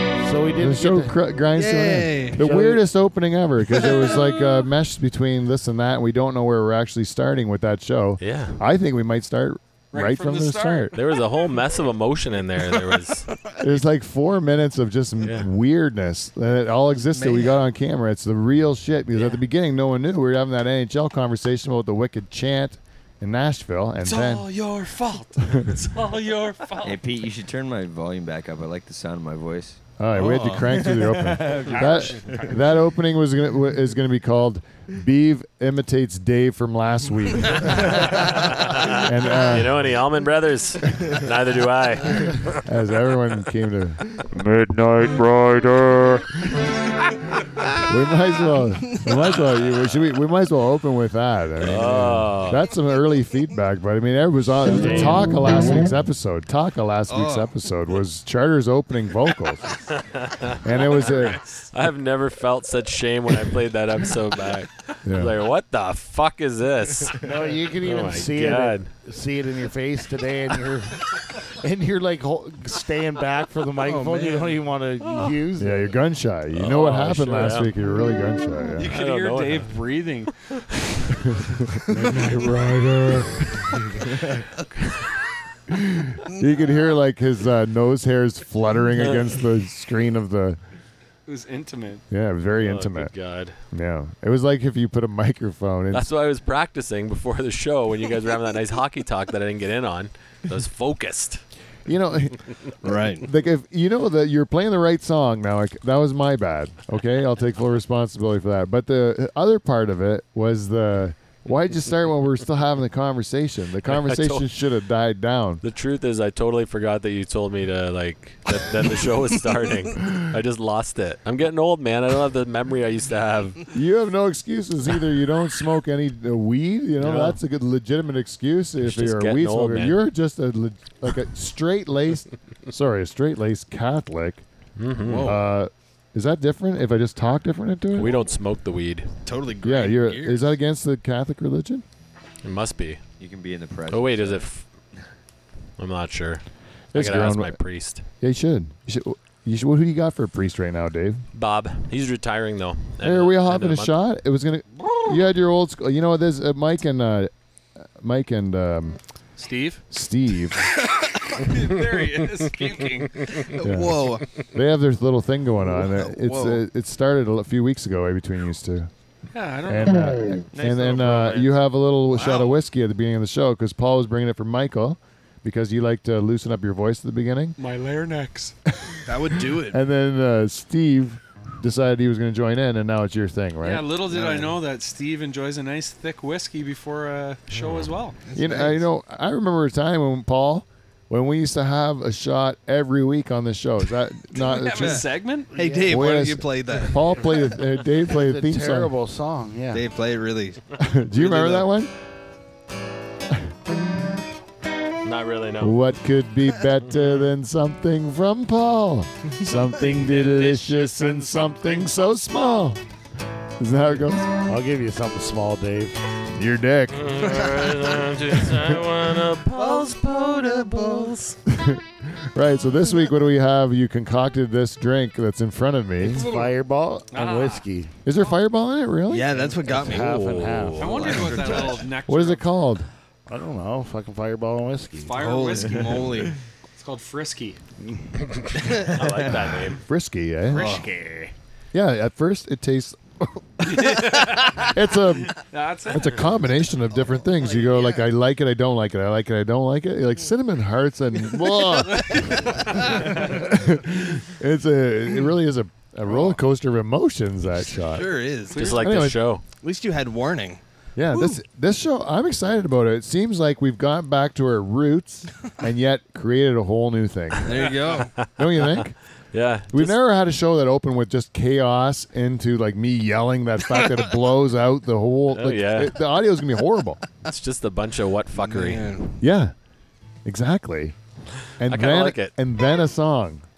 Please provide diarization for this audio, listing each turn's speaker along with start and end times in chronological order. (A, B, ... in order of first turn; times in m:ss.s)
0:00.2-0:01.2 A
0:00.6-0:11.0 B
0:01.5-0:02.4 C
0:02.4-0:02.8 A
0:08.2-0:08.6 D
0:09.9-0:11.0 E
0:10.9-0:13.3 D
0:13.6-0:24.5 B
0:15.2-0:15.5 D
0:17.2-0:17.5 C
0:24.0-0:27.0 E
0:25.4-0:25.7 B
0:26.8-0:29.8 F
0:30.0-0:39.9 B
0:30.2-0:31.7 C
0:31.5-0:32.7 E
0:38.0-0:42.6 D
0:42.6-0:46.2 B
0:44.6-0:45.7 A
0:47.8-0:59.8 B
0:51.6-0:52.6 D
0:57.1-0:57.4 C
0:59.9-1:07.2 D
1:00.6-1:01.4 B
1:05.0-1:05.3 B
1:07.2-1:15.9 A
1:07.8-1:08.9 D
1:13.8-1:14.6 C
1:15.6-1:18.9 B
1:16.5-1:17.7 D
1:18.8-1:20.3 E
1:18.8-1:19.7 D
1:21.1-1:24.1 B
1:24.1-1:24.4 C
1:25.7-1:30.6 B
1:31.3-1:32.0 E
1:32.1-1:33.1 B
1:32.6-1:33.6 D
1:33.7-1:36.1 B
1:35.9-1:41.4 D
1:41.8-1:55.6 B
1:42.8-1:43.3 C
1:53.8-1:54.4 D
1:55.6-2:03.7 D
2:03.7-2:14.4 B
2:07.0-2:07.4 D
2:08.8-2:10.0 D
2:14.8-2:15.4 D
2:15.0-2:15.4 C
2:15.2-2:18.2 B
2:17.9-2:19.1 D
2:19.2-2:20.5 C
2:19.6-2:21.8 B
2:22.4-2:23.0 D
2:23.2-2:24.4 F
2:23.9-2:24.6 D
2:25.8-2:26.4 D
2:26.9-2:27.6 B
2:26.9-2:28.0 D
2:28.2-2:31.2 B
2:31.3-2:33.9 D
2:33.0-2:37.3 B
2:37.8-2:39.0 B
2:39.4-2:39.8 E
2:39.9-2:40.7 B
2:41.3-2:43.4 E
2:43.5-2:44.3 C
2:43.6-2:48.9 B
2:45.8-2:46.6 C
2:49.3-2:50.2 E
2:49.6-2:57.6 B
2:50.5-2:51.6 F
2:52.2-2:52.5 C
2:57.6-2:58.5 E
2:58.8-3:03.8 B
2:59.0-2:59.8 C
3:03.6-3:08.2 E
3:04.1-3:04.5 C
3:07.5-3:07.9 D
3:08.3-3:08.8 C
3:08.3-3:15.0 B
3:14.3-3:15.5 E
3:14.8-3:17.2 C
3:15.5-3:15.9 A
3:15.8-3:18.9 B
3:18.1-3:19.8 A
3:19.7-3:20.6 C
3:20.8-3:21.9 B
3:21.2-3:21.6 C
3:25.0-3:25.8 D
3:25.6-3:32.8 B
3:30.0-3:32.3 E
3:33.6-3:34.3 B
3:34.5-3:36.0 A
3:36.3-3:37.2 B
3:36.9-3:41.4 D
3:37.4-3:37.7 C
3:41.5-3:46.2 B
3:46.0-3:47.9 A
3:46.1-3:46.5 E
3:47.1-3:47.6 E
3:48.0-3:49.3 B
3:49.1-3:50.1 C
3:49.7-3:50.9 A
3:49.7-3:51.3 D
3:50.8-3:52.5 E
3:51.0-3:51.7 F
3:51.2-3:51.7 C
3:52.1-3:52.9 B
3:53.3-3:55.1 A
3:55.0-3:57.6 E
3:55.2-3:56.4 C
3:57.8-3:58.1 A
3:58.4-3:59.8 D
3:58.6-3:59.1 C
3:59.8-4:00.7 B
4:00.5-4:01.3 E
4:00.5-4:00.9 C
4:01.7-4:05.4 B
4:03.6-4:04.7 E
4:05.4-4:06.3 E
4:05.9-4:18.2 B
4:12.2-4:13.1 C
4:16.1-4:16.4 C
4:17.7-4:18.8 C
4:18.5-4:18.8 E
4:18.5-4:19.4 D
4:18.7-4:19.2 B
4:19.5-4:20.6 C
4:21.0-4:27.7 B
4:27.4-4:28.1 C
4:28.2-4:28.8 D
4:28.3-4:29.0 B
4:29.3-4:30.0 D
4:29.7-4:37.0 B
4:35.3-4:36.0 D
4:37.2-4:38.9 D
4:38.4-4:39.2 C
4:39.2-4:39.5 B
4:40.2-4:41.0 B
4:41.6-4:43.4 B
4:41.6-4:42.3 D